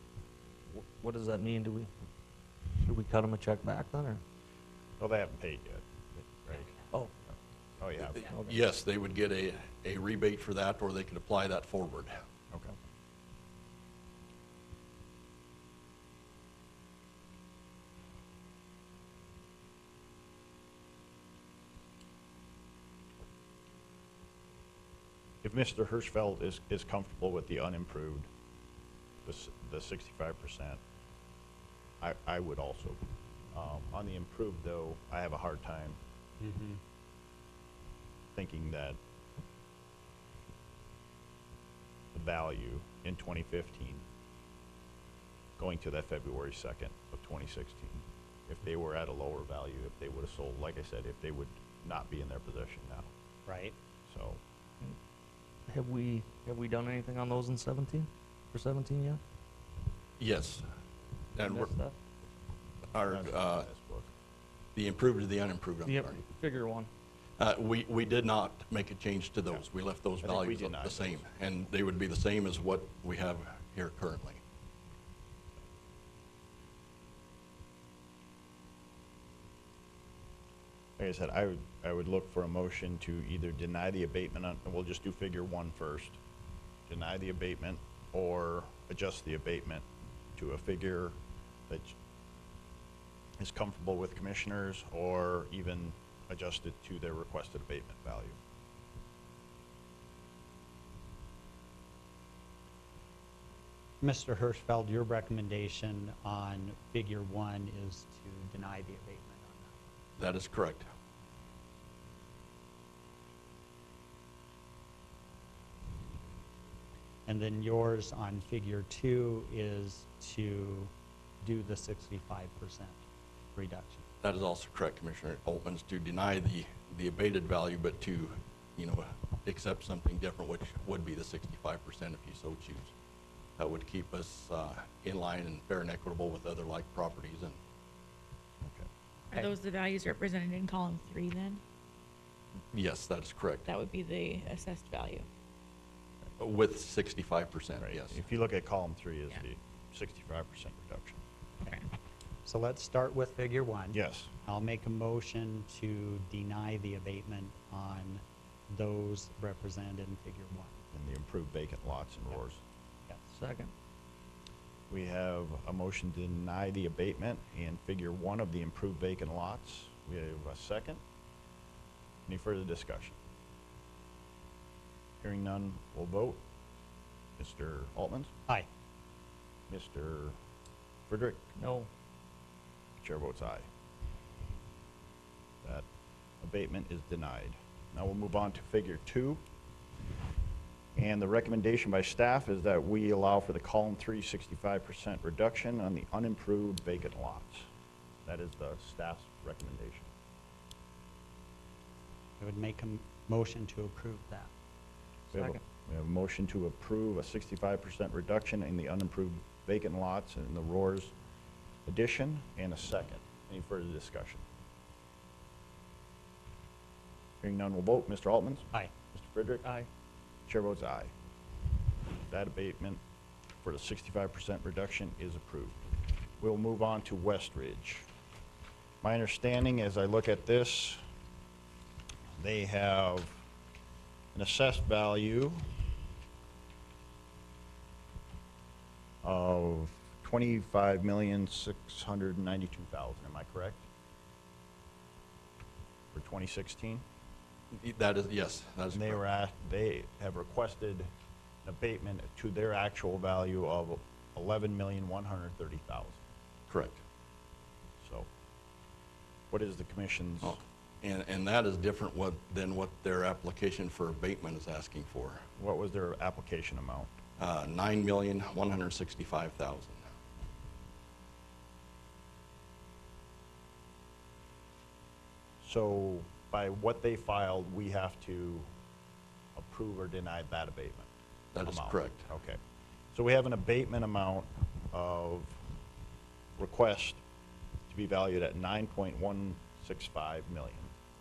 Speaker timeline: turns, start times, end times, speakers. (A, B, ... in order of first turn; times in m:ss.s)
0:00.7-0:01.9 A
0:02.8-0:04.2 A
0:05.0-0:06.7 B
0:07.8-0:08.3 B
0:08.1-0:12.2 C
0:08.3-0:08.5 A
0:12.5-0:12.8 B
0:25.4-0:28.3 B
0:29.2-0:30.8 B
0:32.0-0:33.0 B
0:33.5-0:36.0 B
0:36.4-0:36.8 D
0:38.3-0:39.0 B
0:42.1-0:44.0 B
0:45.6-0:53.1 B
0:53.5-0:53.8 D
0:54.1-0:54.4 B
0:55.7-0:59.2 A
1:00.2-1:00.7 C
1:01.3-1:01.7 C
1:01.4-1:01.9 A
1:02.9-1:03.7 C
1:03.1-1:04.1 B
1:04.7-1:06.2 C
1:05.8-1:06.9 A
1:07.4-1:14.4 C
1:10.2-1:11.2 B
1:21.0-1:26.2 B
1:26.9-1:31.2 B
1:31.7-1:32.0 B
1:33.4-1:38.4 B
1:44.0-1:49.9 D
1:50.2-1:50.9 C
1:57.2-2:00.9 D
2:01.4-2:03.0 D
2:03.5-2:04.0 D
2:04.2-2:12.9 C
2:13.6-2:17.6 C
2:18.6-2:18.9 B
2:19.3-2:21.6 E
2:22.7-2:23.7 C
2:23.6-2:25.3 E
2:26.4-2:28.2 C
2:27.8-2:31.2 B
2:32.4-2:40.8 D
2:33.9-2:34.3 B
2:40.9-2:42.6 B
2:43.3-2:43.7 A
2:44.9-2:51.0 B
2:52.2-2:53.2 B
2:55.2-2:56.4 B
2:57.4-2:58.3 B
2:59.7-3:00.4 B
3:01.1-3:01.4 B
3:01.6-3:01.9 A
3:03.0-3:03.7 B
3:06.4-3:09.4 B
3:11.0-3:17.7 B
3:18.2-3:20.1 B
3:22.4-3:24.5 D
3:25.3-3:25.6 A
3:25.3-3:31.1 B
3:31.8-3:34.4 B
3:37.4-3:39.6 B
3:40.5-3:41.1 B
3:42.3-3:43.0 B
3:43.6-3:45.8 B
3:46.4-3:48.1 B
3:49.0-3:51.0 B
3:52.4-3:53.4 B
3:54.3-3:55.6 B
3:59.2-4:03.8 B
4:06.1-4:07.0 B
4:07.7-4:09.2 C
4:08.9-4:11.1 B
4:11.6-4:16.2 B
4:16.7-4:17.0 C
4:18.0-4:18.3 B
4:19.5-4:20.6 B
4:20.4-4:25.4 C
4:25.6-4:27.1 B
4:27.4-4:30.1 C
4:35.6-4:38.7 B
4:39.6-4:41.1 B
4:41.5-4:42.2 C
4:41.6-4:42.6 B
4:43.1-4:45.6 B
4:46.6-4:47.2 B
4:47.9-4:50.9 B